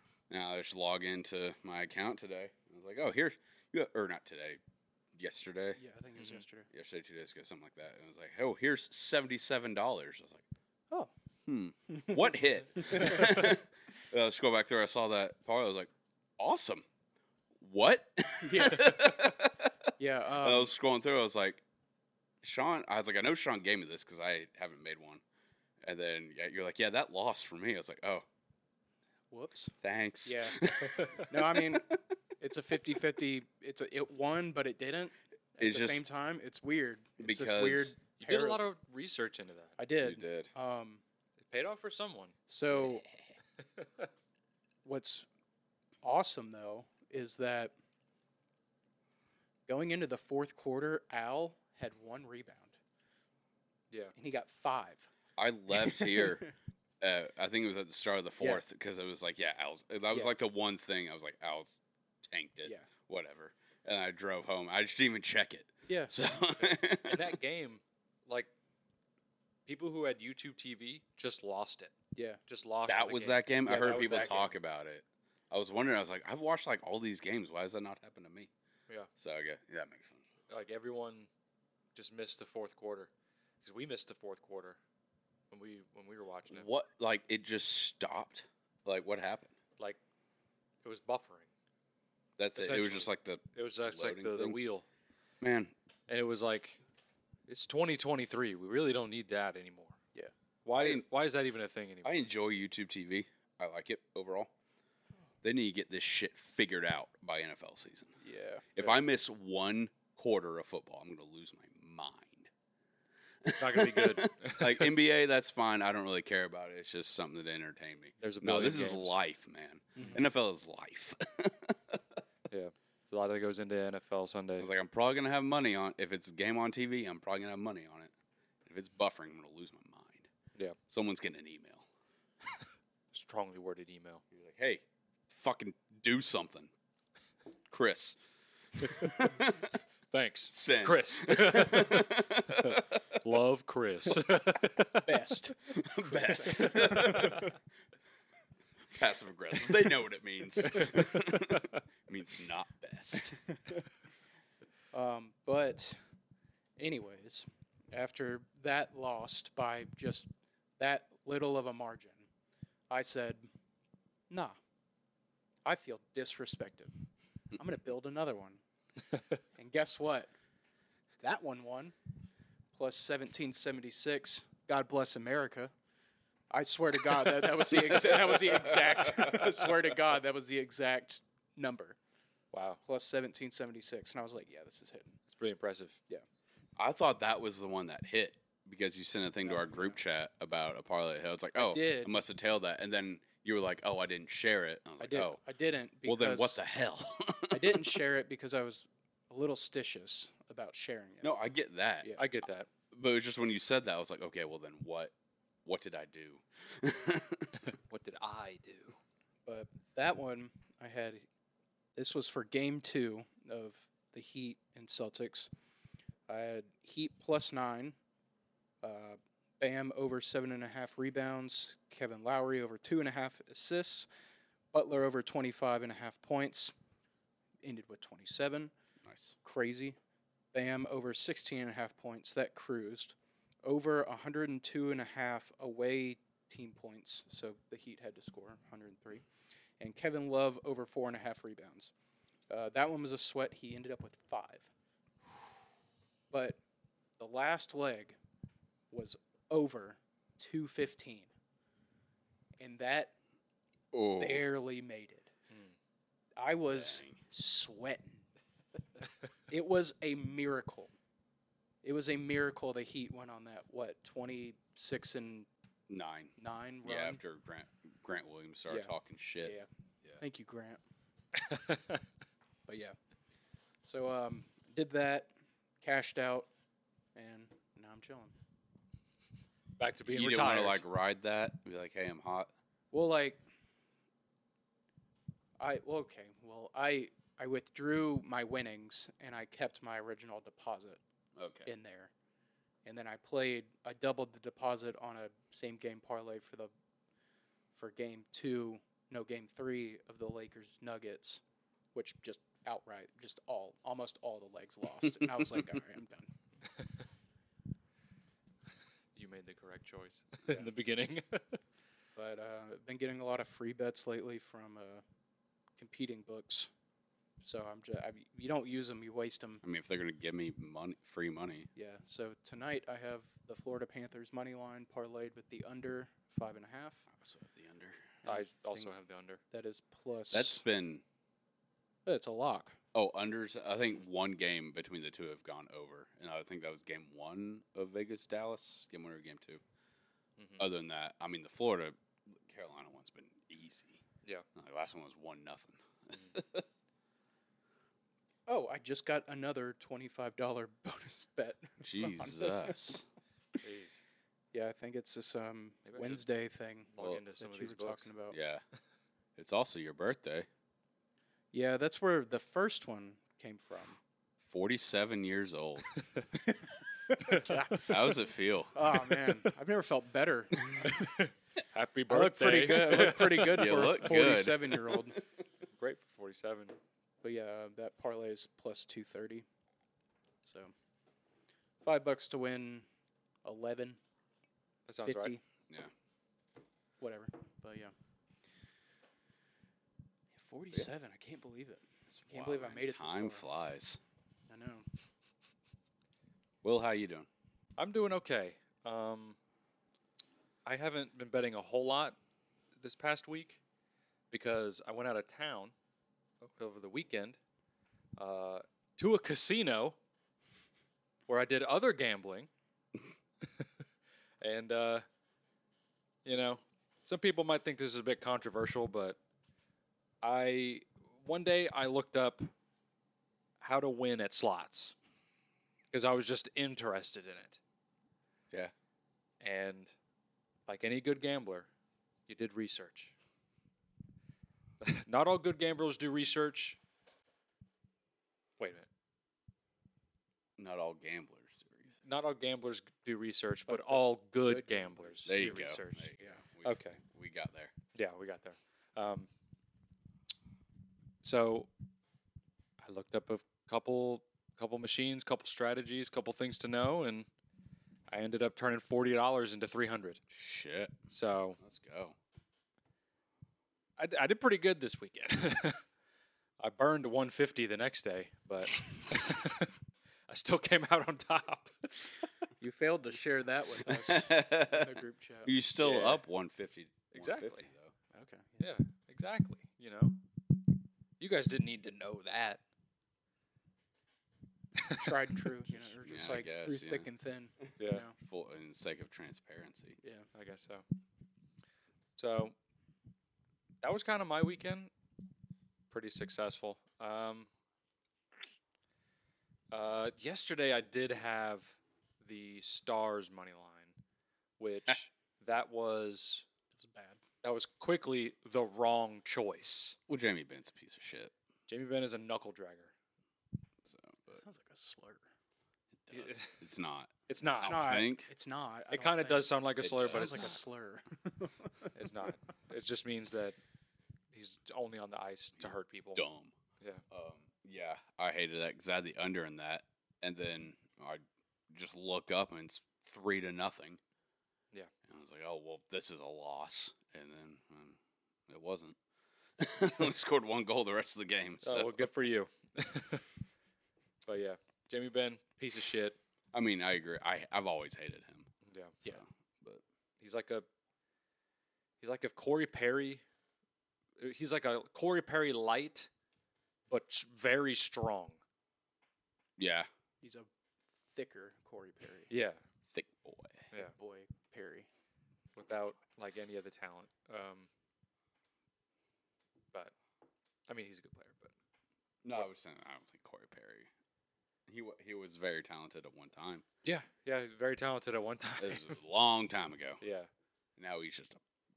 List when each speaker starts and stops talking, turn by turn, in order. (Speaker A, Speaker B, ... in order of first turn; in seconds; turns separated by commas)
Speaker A: 0.3-4.6, Speaker A: 5.2-5.8, Speaker B: 5.8-6.7, Speaker C: 6.2-6.4, Speaker A: 6.7-10.4, Speaker A: 11.5-16.9, Speaker B: 11.9-13.6, Speaker A: 17.6-19.7, Speaker B: 18.4-19.4, Speaker B: 20.0-20.7, Speaker A: 20.4-21.6, Speaker A: 22.4-25.2, Speaker A: 25.8-28.3, Speaker B: 29.3-38.6, Speaker A: 29.8-31.8, Speaker C: 30.8-31.3, Speaker A: 35.6-36.0, Speaker A: 37.2-38.0, Speaker C: 38.2-39.8, Speaker B: 39.8-41.0, Speaker A: 40.0-40.5, Speaker C: 41.4-42.3, Speaker B: 42.5-43.1, Speaker C: 43.8-44.1, Speaker B: 44.9-45.3, Speaker B: 46.0-47.8, Speaker B: 49.7-52.8, Speaker B: 54.1-55.1, Speaker A: 55.4-56.5, Speaker B: 55.7-56.5, Speaker A: 57.0-67.4, Speaker B: 62.6-62.9, Speaker B: 65.9-66.2, Speaker C: 66.7-68.5, Speaker C: 69.7-71.9, Speaker B: 72.2-72.4, Speaker C: 72.5-74.5, Speaker A: 72.9-78.5, Speaker B: 73.7-74.5, Speaker A: 79.2-80.3, Speaker C: 80.5-81.3, Speaker C: 82.0-83.1, Speaker C: 83.6-84.8, Speaker C: 85.5-86.7, Speaker A: 86.5-89.5, Speaker C: 90.8-91.5, Speaker A: 92.4-94.6, Speaker C: 92.5-94.9, Speaker A: 95.4-95.7, Speaker C: 96.1-96.8, Speaker C: 97.5-100.0, Speaker C: 100.7-102.3, Speaker A: 100.8-101.0, Speaker A: 102.0-104.5, Speaker A: 105.4-108.2, Speaker B: 108.2-108.9, Speaker A: 108.8-112.5, Speaker A: 113.4-122.0, Speaker C: 113.5-114.9, Speaker C: 118.2-119.2, Speaker B: 120.0-120.2, Speaker C: 122.5-124.7, Speaker A: 124.6-128.1, Speaker A: 128.7-130.3, Speaker A: 130.9-131.9, Speaker C: 133.1-134.2, Speaker A: 134.3-136.7, Speaker A: 137.7-138.2, Speaker A: 138.8-139.8, Speaker C: 138.8-139.2, Speaker C: 140.1-145.3, Speaker A: 140.5-143.2, Speaker B: 145.1-147.5, Speaker A: 145.7-147.5, Speaker A: 148.9-153.4, Speaker C: 150.6-151.8, Speaker B: 154.9-156.0, Speaker B: 156.8-162.3, Speaker B: 162.9-163.5, Speaker B: 164.3-164.6, Speaker B: 165.7-166.9, Speaker B: 167.6-168.6, Speaker B: 169.6-170.3, Speaker B: 171.2-171.9, Speaker B: 172.7-175.7, Speaker B: 176.5-182.0, Speaker A: 177.8-179.4, Speaker C: 182.5-182.8, Speaker B: 182.8-185.2, Speaker C: 185.3-186.0, Speaker A: 186.8-195.4, Speaker B: 189.4-190.0, Speaker B: 191.6-192.2, Speaker B: 195.0-196.6, Speaker A: 196.1-198.0, Speaker B: 197.5-201.3, Speaker A: 201.2-202.2, Speaker C: 202.2-202.7, Speaker A: 202.9-205.1, Speaker A: 205.7-207.7, Speaker C: 207.6-209.0, Speaker B: 209.5-211.3, Speaker B: 212.0-215.5, Speaker B: 216.3-218.0, Speaker B: 218.8-224.1, Speaker B: 224.7-226.7, Speaker B: 227.6-228.7, Speaker A: 229.0-229.4, Speaker B: 229.4-230.0, Speaker B: 230.5-239.3, Speaker B: 239.8-241.9, Speaker B: 242.5-244.7, Speaker B: 246.3-246.6, Speaker B: 247.2-248.2, Speaker B: 248.9-251.3, Speaker B: 252.6-253.2, Speaker A: 253.9-254.4, Speaker B: 254.2-255.3, Speaker B: 256.4-258.3, Speaker A: 256.7-257.2, Speaker B: 259.5-260.9, Speaker B: 261.8-265.5, Speaker A: 265.9-270.2, Speaker B: 266.4-267.2, Speaker B: 269.4-269.7, Speaker B: 270.2-270.8, Speaker C: 271.3-272.1, Speaker B: 272.7-273.0, Speaker B: 273.8-276.5, Speaker B: 277.1-278.4, Speaker C: 279.8-280.8, Speaker A: 280.1-282.5, Speaker B: 282.9-283.4, Speaker B: 285.6-291.0, Speaker A: 291.4-291.7, Speaker B: 291.7-292.1, Speaker B: 292.9-296.7, Speaker B: 297.8-301.4, Speaker B: 301.9-306.3, Speaker A: 305.0-305.8, Speaker C: 309.1-311.6, Speaker B: 312.2-315.0, Speaker B: 315.8-316.7, Speaker B: 317.4-319.6, Speaker A: 319.6-321.7, Speaker B: 321.8-327.1, Speaker A: 327.1-328.2, Speaker B: 328.2-328.9, Speaker C: 328.3-329.4, Speaker B: 329.5-330.6, Speaker A: 330.3-331.0, Speaker B: 332.1-332.8, Speaker A: 332.9-339.6, Speaker C: 340.4-340.6, Speaker A: 340.6-344.0, Speaker A: 344.6-346.7, Speaker B: 348.5-352.9, Speaker A: 351.8-353.1, Speaker C: 353.6-354.0, Speaker B: 354.5-358.4, Speaker C: 355.9-356.3, Speaker C: 356.9-358.1, Speaker A: 358.3-358.6, Speaker A: 359.4-360.5, Speaker B: 361.5-364.0, Speaker A: 364.4-366.0, Speaker B: 366.5-371.2, Speaker A: 367.8-368.8, Speaker A: 370.6-370.9, Speaker C: 371.2-373.7, Speaker B: 372.1-375.2, Speaker A: 372.9-375.0, Speaker C: 375.8-376.8, Speaker B: 377.2-379.4, Speaker B: 380.4-380.7, Speaker B: 381.8-382.9, Speaker B: 383.4-384.0, Speaker C: 384.9-385.3, Speaker B: 385.0-385.4, Speaker B: 387.0-387.9, Speaker B: 390.4-393.5, Speaker A: 392.1-394.0, Speaker B: 394.5-394.9, Speaker A: 396.6-397.3, Speaker C: 397.8-399.4, Speaker C: 400.6-402.2, Speaker C: 402.8-403.6, Speaker C: 404.3-405.7, Speaker C: 406.4-407.4, Speaker C: 408.2-410.0, Speaker C: 411.3-412.5, Speaker C: 414.4-415.1, Speaker C: 416.2-419.2, Speaker C: 420.2-422.5, Speaker C: 423.6-424.9, Speaker C: 425.9-427.6, Speaker C: 429.4-429.9, Speaker C: 430.7-431.7, Speaker C: 432.3-433.1, Speaker C: 434.8-436.8, Speaker C: 438.6-438.9, Speaker A: 440.6-441.9, Speaker C: 442.0-446.1, Speaker B: 443.7-445.6, Speaker A: 445.3-447.7, Speaker C: 446.6-447.0, Speaker C: 447.9-449.3, Speaker C: 451.2-451.7, Speaker C: 452.8-457.3, Speaker C: 458.1-460.2, Speaker A: 460.3-461.0, Speaker C: 461.1-461.6, Speaker A: 461.6-462.2, Speaker C: 464.0-465.8, Speaker C: 466.6-469.8, Speaker C: 470.3-472.1, Speaker B: 472.6-476.2, Speaker A: 473.9-477.9, Speaker C: 477.1-477.7, Speaker B: 478.1-478.6, Speaker C: 478.6-480.2, Speaker C: 481.2-482.6, Speaker C: 484.8-485.1, Speaker B: 484.9-488.2, Speaker A: 486.0-487.1, Speaker C: 487.8-488.1, Speaker A: 488.2-490.0, Speaker B: 490.0-490.3, Speaker C: 490.3-490.8, Speaker C: 492.2-492.6, Speaker C: 493.8-494.9, Speaker C: 495.9-497.5, Speaker C: 499.7-503.9, Speaker C: 504.6-506.5, Speaker B: 506.7-507.2, Speaker C: 507.4-510.0, Speaker A: 510.1-511.3, Speaker C: 511.7-512.9, Speaker A: 513.9-514.4, Speaker B: 514.3-515.2, Speaker A: 516.0-518.3, Speaker C: 516.1-516.6, Speaker C: 517.3-518.1, Speaker B: 517.6-521.9, Speaker C: 518.9-520.6, Speaker A: 519.8-520.5, Speaker C: 522.0-523.6, Speaker C: 524.3-526.2, Speaker A: 526.1-526.5, Speaker A: 527.1-534.0, Speaker A: 535.0-539.0, Speaker A: 539.6-542.3, Speaker C: 541.6-543.3, Speaker C: 544.2-546.2, Speaker A: 546.5-548.5, Speaker C: 548.7-549.0, Speaker A: 549.0-549.8, Speaker C: 550.2-550.7, Speaker C: 552.0-553.2, Speaker C: 554.2-556.1, Speaker C: 556.9-558.4, Speaker A: 559.6-559.9, Speaker B: 560.2-560.5, Speaker B: 561.1-562.3, Speaker C: 562.3-562.6, Speaker A: 562.9-563.7, Speaker B: 563.8-564.9, Speaker C: 565.6-567.7, Speaker C: 570.7-571.5, Speaker A: 572.2-573.9, Speaker A: 574.7-576.6, Speaker C: 576.8-579.0, Speaker A: 578.6-580.0, Speaker C: 580.0-580.3, Speaker A: 580.8-581.4